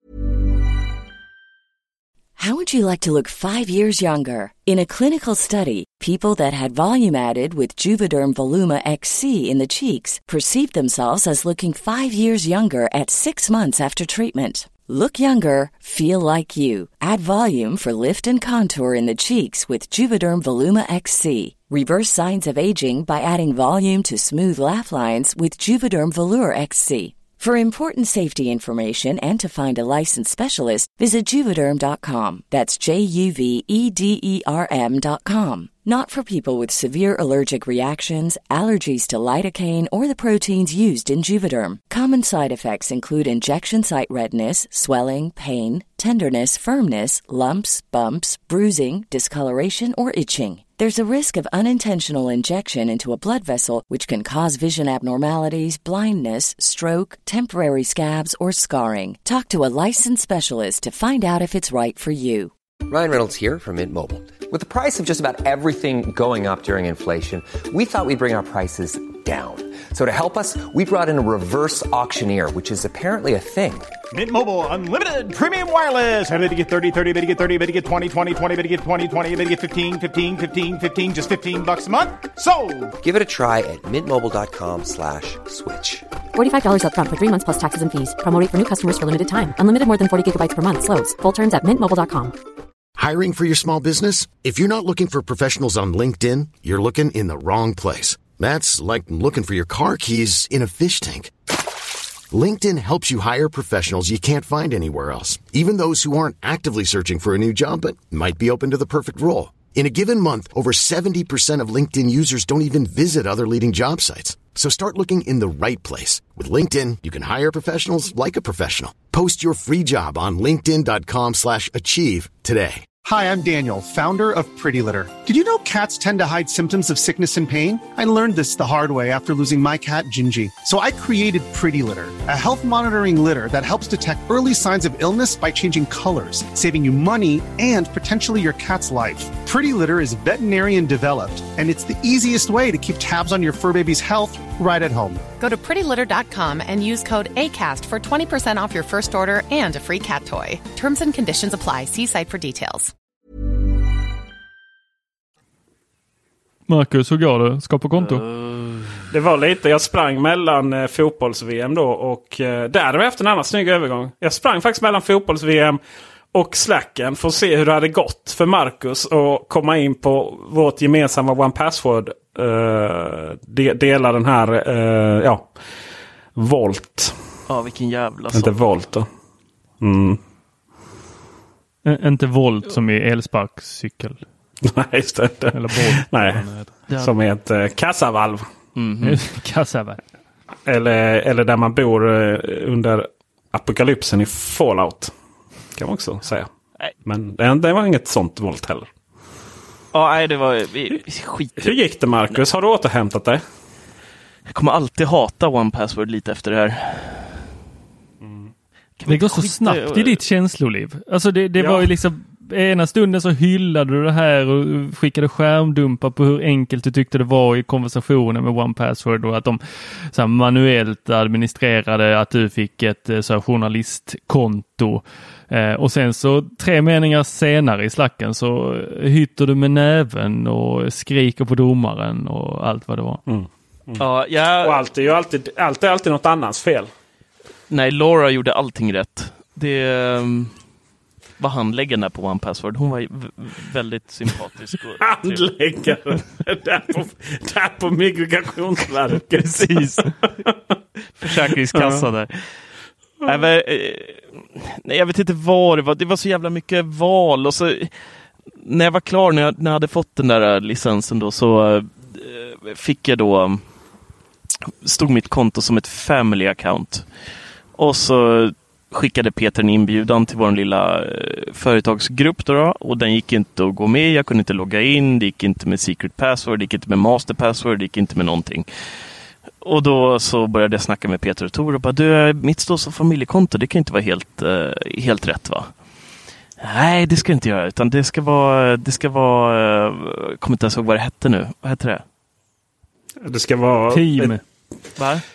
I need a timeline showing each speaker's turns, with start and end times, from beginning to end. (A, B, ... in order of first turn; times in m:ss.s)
0:02.4-1:02.5 A
1:02.9-1:13.9 B
1:14.1-1:22.9 C
1:23.0-1:26.1 B
1:26.3-1:32.4 D
1:33.0-1:41.3 E
1:42.3-2:02.8 E
2:03.0-2:25.2 F
2:25.4-2:32.9 G
2:36.7-2:38.2 H
2:38.2-2:38.8 I
2:39.1-2:45.8 J
2:46.3-2:55.5 J
2:56.4-2:57.1 J
2:57.5-2:58.6 I
2:58.3-2:59.1 J
2:59.8-3:00.2 J
3:01.8-3:04.2 H
3:04.7-3:08.4 J
3:05.5-3:06.7 H
3:08.8-3:09.2 I
3:09.0-3:10.0 H
3:10.7-3:15.1 J
3:15.8-3:16.5 J
3:17.0-3:18.9 J
3:19.9-3:21.8 I
3:21.6-3:23.4 J
3:24.5-3:27.4 I
3:28.2-3:28.5 J
3:29.0-3:30.2 I
3:29.1-3:53.2 H
3:31.6-3:31.9 J
3:53.3-3:54.0 J
3:54.0-3:54.8 I
3:54.6-3:56.9 J
3:57.7-4:00.5 I
4:01.4-4:05.4 I
4:05.0-4:10.5 J
4:09.4-4:10.1 I
4:11.2-4:12.5 I
4:11.2-4:12.0 J
4:13.2-4:17.9 I
4:18.5-4:23.6 I
4:24.7-4:27.0 I
4:27.8-4:38.6 I
4:39.6-4:45.7 I
4:46.6-4:52.0 I
4:53.2-4:54.3 J
4:53.9-4:54.4 H
4:55.0-4:55.2 I